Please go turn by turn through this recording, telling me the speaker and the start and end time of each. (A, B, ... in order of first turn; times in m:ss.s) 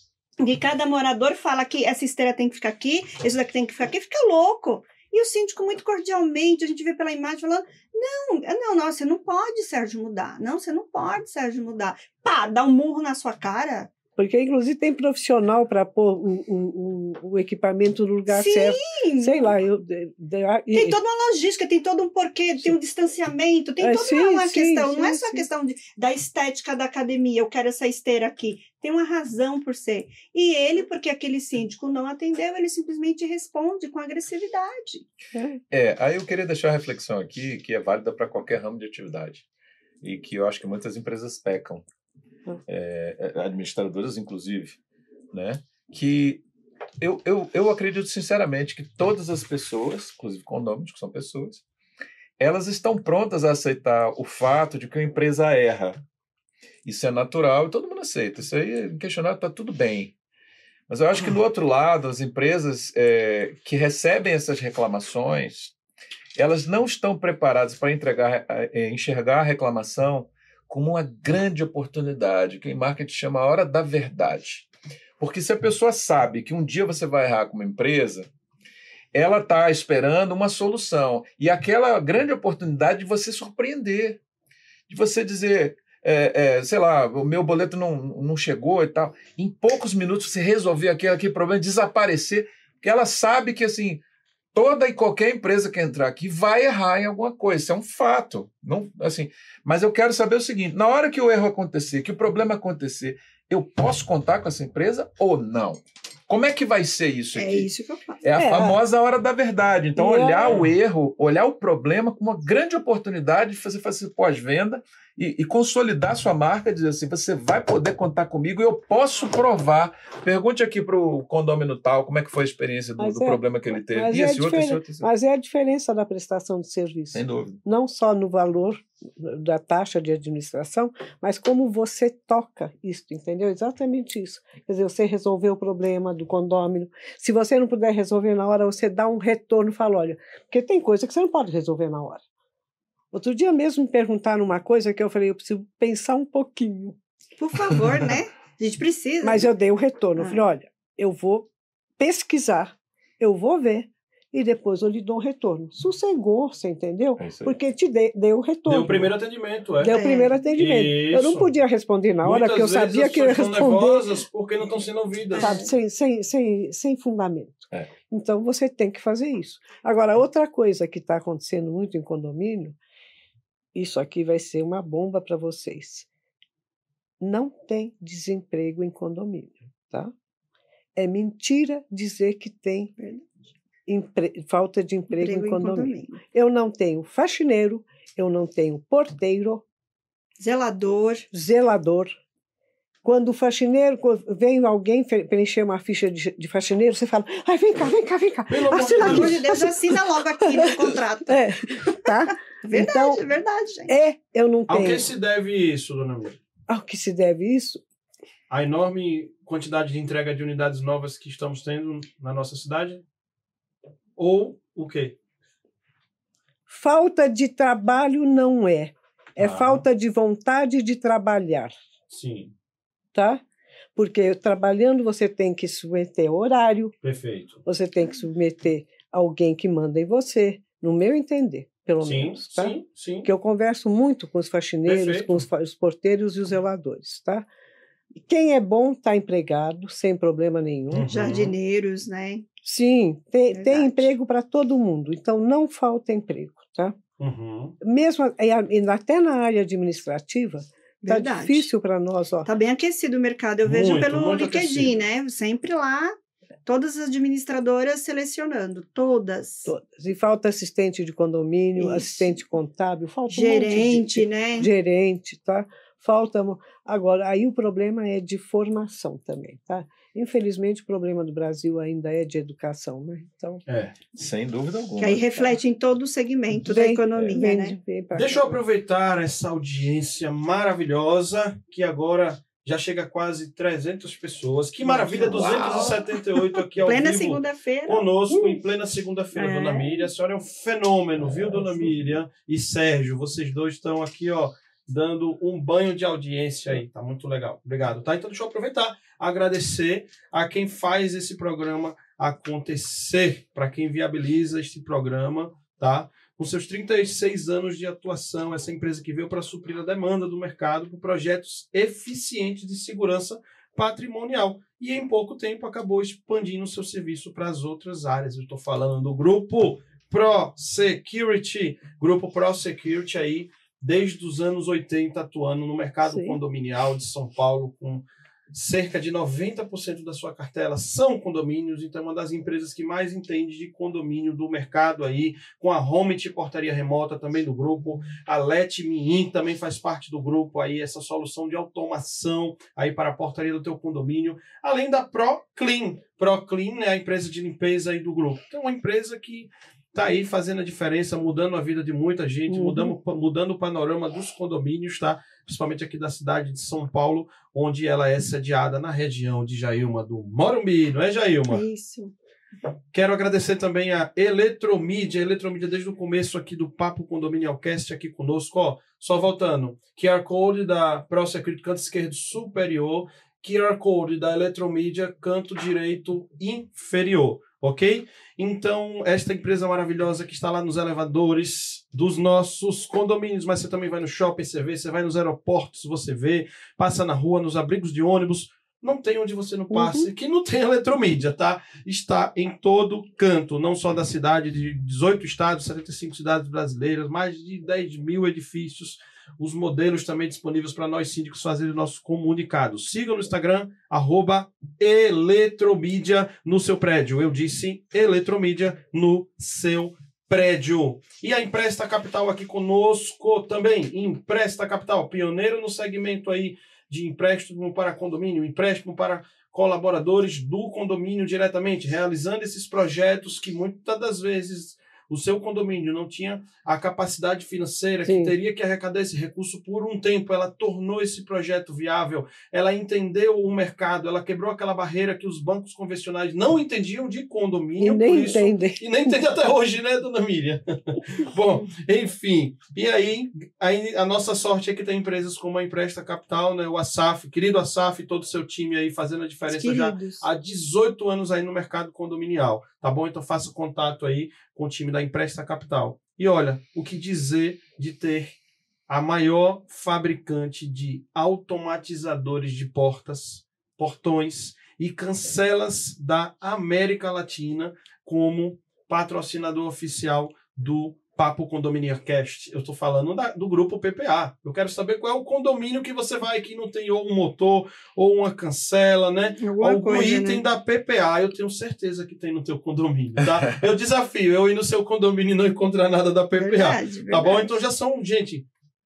0:00.4-0:13.9 A
0:14.2-0:21.0 B
0:18.3-0:19.5 A
0:20.7-0:35.1 A
0:23.8-0:25.5 B
0:35.3-0:35.6 B
0:35.7-0:39.4 C
0:40.0-0:41.8 C
0:42.7-0:44.8 C
0:45.3-0:46.4 C
0:47.0-0:51.6 C
0:52.4-0:56.0 C
0:56.8-1:00.1 C
1:00.9-1:05.7 C
1:06.4-1:14.7 C
1:15.2-1:18.3 C
1:19.1-1:24.2 C
1:24.9-1:34.0 C
1:34.5-1:47.7 C
1:47.4-1:48.2 A
1:48.2-2:05.1 C
1:48.4-1:48.8 B
1:50.0-1:50.7 B
2:03.0-2:22.2 B
2:07.1-2:07.6 C
2:23.1-2:27.0 B
2:27.4-2:29.5 A
2:29.2-2:31.5 B
2:32.0-2:39.1 B
2:37.2-2:37.6 C
2:38.7-2:40.0 D
2:39.8-2:44.1 B
2:39.9-2:40.3 A
2:40.6-2:41.5 D
2:42.2-2:45.6 D
2:45.3-2:45.7 A
2:45.4-2:52.8 B
2:53.7-2:56.1 B
2:57.2-3:00.1 B
3:01.0-3:02.9 B
3:03.0-3:03.2 A
3:03.9-3:09.6 B
3:05.1-3:06.2 A
3:10.4-3:11.3 A
3:11.3-3:12.1 B
3:13.0-3:19.8 B
3:18.5-3:19.4 D
3:18.9-3:22.1 A
3:20.6-3:23.2 B
3:22.6-3:24.0 A
3:23.9-3:25.1 B
3:24.7-3:26.4 D
3:26.7-3:27.8 B
3:28.5-3:33.0 D
3:34.2-3:35.2 D
3:36.7-3:41.8 B
3:39.4-3:39.8 D
3:42.1-3:42.5 D
3:43.1-3:43.4 B
3:44.0-3:47.0 B
3:47.0-3:47.6 D
3:47.7-3:57.5 B
3:52.0-3:53.3 D
3:54.8-3:55.4 D
3:58.2-4:01.1 B
4:00.9-4:01.5 D
4:01.1-4:02.5 A
4:02.6-4:07.0 B
4:03.5-4:04.1 A
4:07.2-4:07.8 D
4:07.8-4:12.5 B
4:11.0-4:11.7 A
4:12.4-4:19.7 A
4:13.6-4:15.0 D
4:19.7-4:33.6 B
4:21.8-4:22.3 A
4:23.3-4:24.7 A
4:33.7-4:34.0 D
4:34.1-4:35.6 C
4:35.0-4:37.8 A
4:36.6-4:38.6 B
4:38.2-6:01.6 D
4:44.8-4:46.0 B
4:45.2-4:46.1 A
4:46.8-4:48.1 A
4:49.4-4:50.0 A
5:26.1-5:26.4 B
5:52.5-5:52.9 B
6:01.5-6:02.1 A
6:02.9-7:38.4 D
6:29.7-6:30.1 B
7:08.0-7:08.3 B
7:17.8-7:19.2 B
7:29.5-7:30.3 A
7:38.9-8:08.5 D
7:59.4-8:00.4 A
8:06.4-8:07.6 A